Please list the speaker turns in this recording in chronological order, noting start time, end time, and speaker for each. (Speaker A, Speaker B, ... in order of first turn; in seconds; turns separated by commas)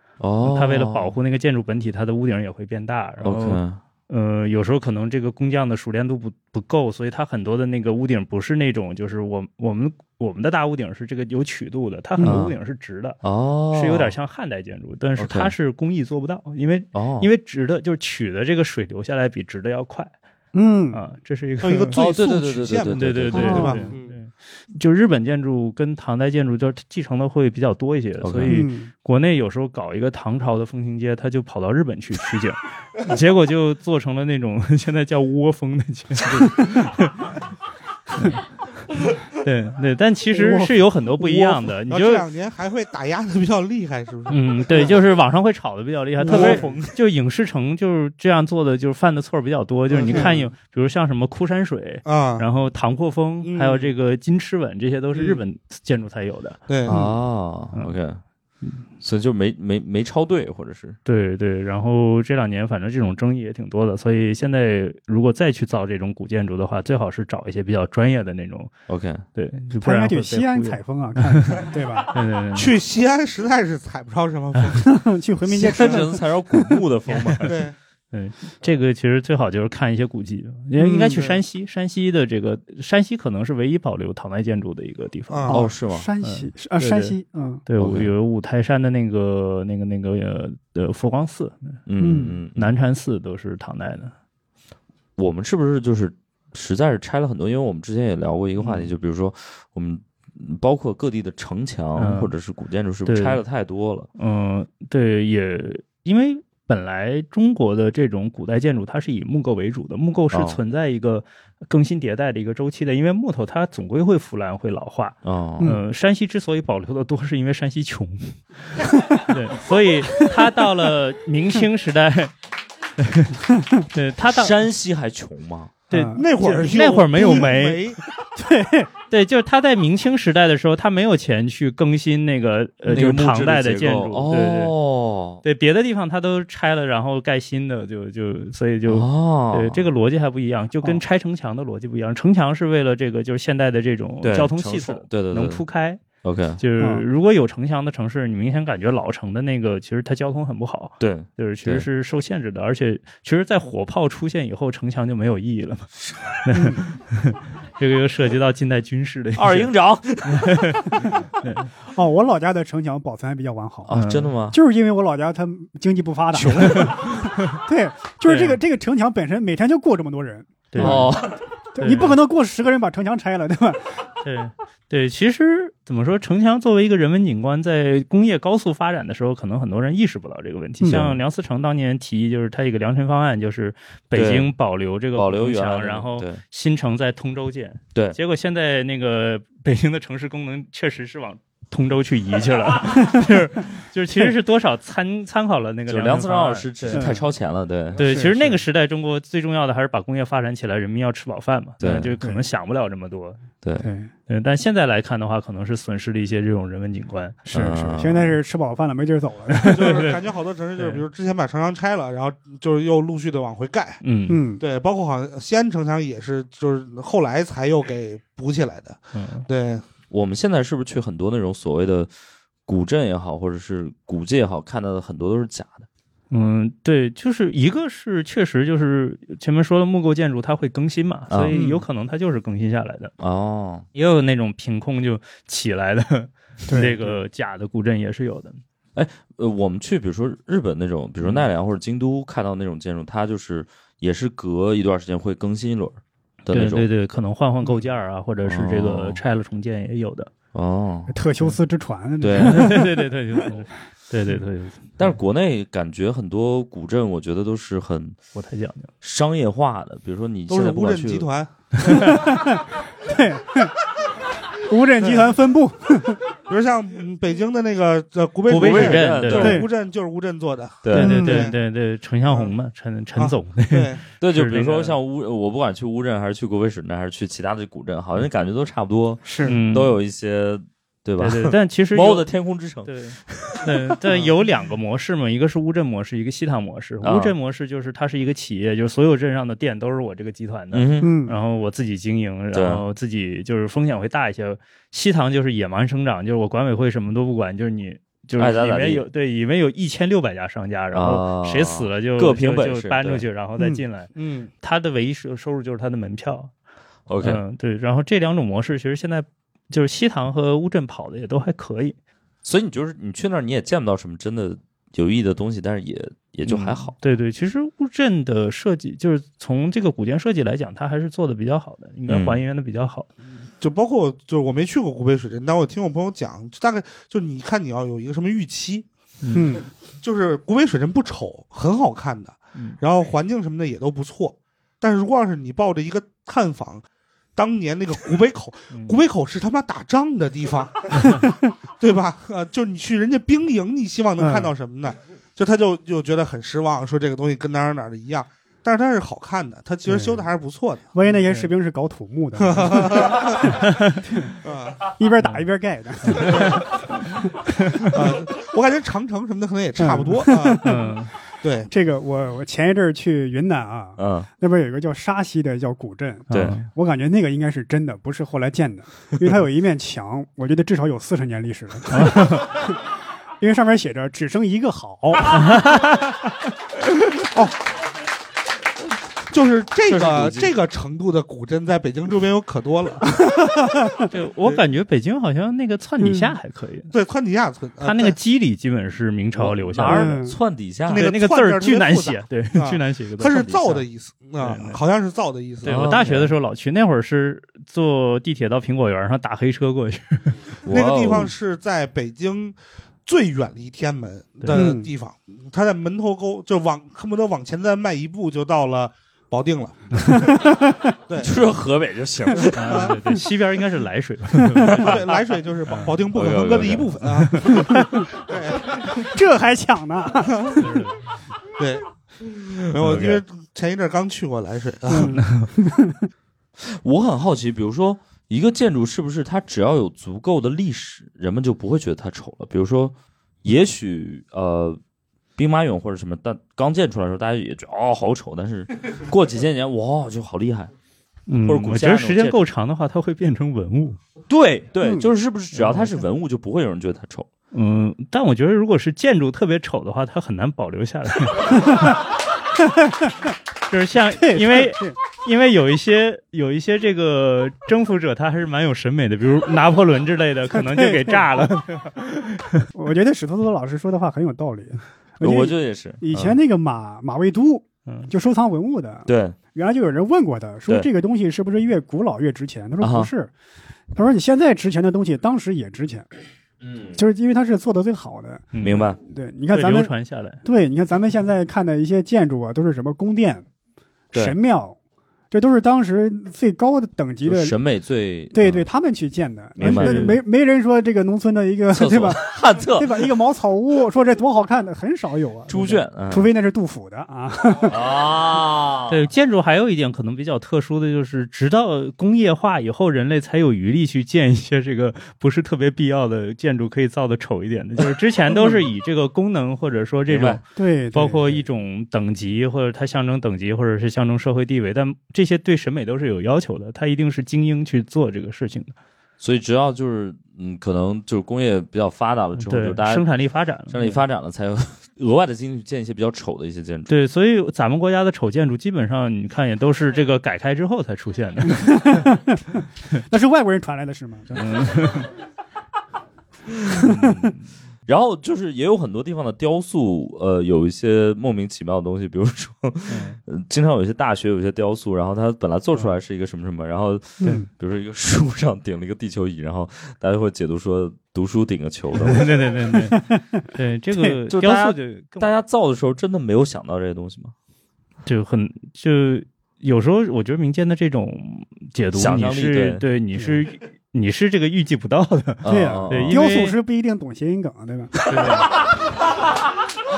Speaker A: 0.2-1.1, Speaker B: 0.4-13.2, Speaker A: 3.2-3.8, Speaker C: 12.2-12.4, Speaker A: 12.2-12.6, Speaker A: 13.2-14.2, Speaker B: 13.7-20.1, Speaker A: 15.2-15.5, Speaker A: 16.9-17.3, Speaker C: 20.5-21.0, Speaker B: 20.9-22.0, Speaker D: 21.6-24.1, Speaker A: 21.9-23.7, Speaker B: 22.9-37.3, Speaker C: 23.3-23.9, Speaker A: 28.2-28.6, Speaker C: 28.5-28.9, Speaker B: 38.1-38.4, Speaker B: 39.4-42.2, Speaker C: 40.3-40.7, Speaker D: 41.2-45.0, Speaker B: 44.3-56.6, Speaker C: 46.2-46.8, Speaker D: 46.3-47.0, Speaker D: 49.9-50.5, Speaker D: 52.0-52.5, Speaker D: 53.4-53.9, Speaker D: 56.7-57.0, Speaker A: 56.8-58.2, Speaker A: 59.0-61.0, Speaker B: 61.0-68.7, Speaker A: 68.9-69.2, Speaker B: 69.3-72.7, Speaker C: 69.8-72.1, Speaker D: 72.5-74.9, Speaker C: 74.8-76.2, Speaker A: 75.5-77.5, Speaker B: 77.1-77.5, Speaker D: 77.4-77.7, Speaker B: 78.1-85.5, Speaker C: 80.8-81.2, Speaker D: 81.1-81.4, Speaker D: 85.3-85.6, Speaker C: 85.5-87.6, Speaker A: 85.5-86.1, Speaker B: 86.2-91.8, Speaker A: 87.8-88.1, Speaker A: 91.9-92.7, Speaker C: 92.0-92.4, Speaker B: 92.5-94.1, Speaker A: 95.2-104.1, Speaker B: 98.6-98.9, Speaker B: 102.0-102.3, Speaker B: 103.0-103.4, Speaker B: 104.2-122.3, Speaker A: 110.3-110.6, Speaker A: 115.2-115.8, Speaker B: 123.0-124.5, Speaker A: 124.3-125.7, Speaker B: 125.9-127.8, Speaker C: 125.9-126.2, Speaker D: 126.1-128.0, Speaker C: 128.3-128.9, Speaker B: 129.1-134.7, Speaker A: 132.8-135.4, Speaker B: 135.4-146.0, Speaker A: 138.9-139.8, Speaker A: 144.2-145.6, Speaker A: 146.2-146.6, Speaker B: 146.6-159.7, Speaker C: 146.8-147.0, Speaker A: 151.0-151.8, Speaker C: 156.5-156.8, Speaker A: 159.3-161.2, Speaker B: 160.2-161.7, Speaker C: 161.9-163.9, Speaker A: 163.9-164.6, Speaker B: 163.9-164.3, Speaker C: 164.5-171.2, Speaker A: 166.4-167.0, Speaker B: 166.6-167.6, Speaker B: 168.2-168.6, Speaker B: 170.7-171.1, Speaker A: 170.8-171.4, Speaker C: 171.7-173.9, Speaker B: 171.8-172.2, Speaker B: 174.2-197.1, Speaker C: 180.8-181.2, Speaker A: 184.1-184.5, Speaker A: 185.1-186.4, Speaker A: 195.9-198.0, Speaker C: 196.9-197.2, Speaker B: 197.9-203.4, Speaker C: 198.0-198.6, Speaker A: 201.8-202.1, Speaker C: 203.8-204.1, Speaker B: 204.3-207.5, Speaker A: 207.5-208.4, Speaker C: 207.5-210.1, Speaker B: 209.5-210.2, Speaker D: 209.6-214.0, Speaker B: 210.8-211.0, Speaker B: 214.0-214.4, Speaker C: 214.3-214.6, Speaker D: 214.6-219.8, Speaker B: 219.1-219.4, Speaker A: 220.1-222.1, Speaker A: 222.7-225.8, Speaker B: 226.3-233.1, Speaker A: 231.3-231.5, Speaker C: 231.5-231.8, Speaker A: 233.2-233.8, Speaker B: 233.9-238.6, Speaker C: 236.7-237.2, Speaker A: 238.9-246.9, Speaker B: 246.5-250.3, Speaker A: 248.4-249.2, Speaker A: 250.5-251.1, Speaker C: 251.1-253.0, Speaker A: 252.2-252.9, Speaker B: 252.4-255.1, Speaker A: 255.0-258.2, Speaker B: 258.3-258.9, Speaker A: 259.0-261.3, Speaker D: 260.5-262.3, Speaker B: 261.8-262.1, Speaker C: 261.9-263.7, Speaker C: 264.5-266.2, Speaker D: 265.0-265.3, Speaker D: 266.4-271.6, Speaker B: 268.5-269.6, Speaker A: 268.5-269.6, Speaker C: 269.3-269.7, Speaker A: 270.8-271.2, Speaker C: 270.9-271.5, Speaker B: 270.9-275.0, Speaker D: 273.1-274.0, Speaker A: 274.2-283.7, Speaker C: 279.2-279.6, Speaker B: 279.4-279.9, Speaker B: 281.2-282.3, Speaker B: 282.8-306.5, Speaker A: 287.0-287.3, Speaker A: 290.7-291.1, Speaker C: 291.0-291.4, Speaker A: 292.5-292.8, Speaker A: 298.4-299.1, Speaker A: 300.9-303.2, Speaker D: 304.1-304.5, Speaker A: 307.1-307.4, Speaker B: 307.2-311.9, Speaker A: 312.4-316.9, Speaker B: 316.4-323.1, Speaker A: 322.1-322.4, Speaker D: 323.6-328.9, Speaker B: 329.2-329.6, Speaker C: 329.3-329.7, Speaker D: 330.0-336.8, Speaker D: 337.4-350.8, Speaker B: 338.7-339.0, Speaker C: 344.2-344.5, Speaker C: 349.9-350.3, Speaker C: 350.9-353.5, Speaker B: 351.0-351.5, Speaker D: 352.4-353.6, Speaker B: 353.5-354.0, Speaker C: 354.1-354.4, Speaker D: 354.4-354.9, Speaker C: 354.9-356.8, Speaker B: 355.2-355.4, Speaker B: 356.1-356.6, Speaker D: 356.1-356.6, Speaker B: 357.5-357.9, Speaker D: 357.9-360.7, Speaker C: 359.8-360.9, Speaker B: 360.6-361.1, Speaker D: 361.4-361.7, Speaker C: 361.7-372.8, Speaker A: 364.0-364.3, Speaker B: 366.3-366.7, Speaker A: 366.3-366.6, Speaker B: 371.9-372.5, Speaker C: 373.4-375.6, Speaker B: 375.3-376.1, Speaker D: 379.3-383.2, Speaker A: 379.8-380.5, Speaker B: 384.1-386.9, Speaker C: 386.0-386.3, Speaker D: 386.9-388.1, Speaker B: 387.8-390.1, Speaker A: 389.3-391.1, Speaker C: 389.9-390.4, Speaker D: 390.9-395.9, Speaker B: 390.9-393.9, Speaker B: 394.4-394.8, Speaker A: 395.6-396.3, Speaker B: 395.6-400.4, Speaker A: 400.6-401.3, Speaker D: 400.6-410.5, Speaker C: 404.5-404.9, Speaker C: 410.0-410.8, Speaker D: 411.1-411.3, Speaker A: 411.2-412.9, Speaker D: 412.4-412.9, Speaker B: 412.5-416.0, Speaker D: 414.7-419.1, Speaker A: 416.1-416.9, Speaker C: 417.6-418.1, Speaker C: 418.9-420.6, Speaker D: 420.2-420.6, Speaker B: 420.6-421.1, Speaker D: 421.6-421.9, Speaker D: 422.5-425.2, Speaker B: 422.8-423.2, Speaker C: 424.9-426.0, Speaker B: 425.1-425.5, Speaker A: 426.6-434.8, Speaker A: 435.4-440.7, Speaker B: 441.3-444.0, Speaker A: 441.4-442.4, Speaker A: 444.3-447.3, Speaker C: 444.8-445.1, Speaker B: 445.5-446.0, Speaker B: 447.5-451.9, Speaker B: 453.7-462.6, Speaker C: 454.2-455.0, Speaker C: 460.5-461.2, Speaker C: 462.7-473.3, Speaker A: 465.2-466.4, Speaker A: 469.1-469.4, Speaker A: 472.8-473.1, Speaker C: 473.9-476.1, Speaker A: 476.6-476.9, Speaker C: 476.9-478.5, Speaker B: 478.5-478.8, Speaker A: 478.6-479.0, Speaker C: 479.0-479.9, Speaker B: 479.5-480.4, Speaker C: 480.4-483.4, Speaker C: 484.1-484.8, Speaker C: 485.3-487.6, Speaker A: 487.2-488.7, Speaker C: 488.3-497.8, Speaker A: 489.6-490.2, Speaker B: 489.6-490.2, Speaker A: 491.7-493.1, Speaker A: 495.5-496.3, Speaker A: 497.7-499.0, Speaker B: 498.9-518.7, Speaker A: 510.1-510.4, Speaker C: 510.6-511.4, Speaker A: 519.2-523.1, Speaker B: 522.4-524.0, Speaker A: 523.6-526.9, Speaker B: 526.9-532.1, Speaker C: 531.5-532.4, Speaker C: 533.1-534.4, Speaker B: 534.3-535.1, Speaker C: 536.8-537.1, Speaker B: 536.9-537.4, Speaker A: 537.9-552.3, Speaker B: 542.9-543.2, Speaker C: 547.2-547.5, Speaker B: 552.0-555.3, Speaker A: 554.3-557.3, Speaker B: 558.0-566.6, Speaker A: 561.9-562.8, Speaker A: 565.4-566.2, Speaker C: 565.5-568.1, Speaker B: 568.1-568.5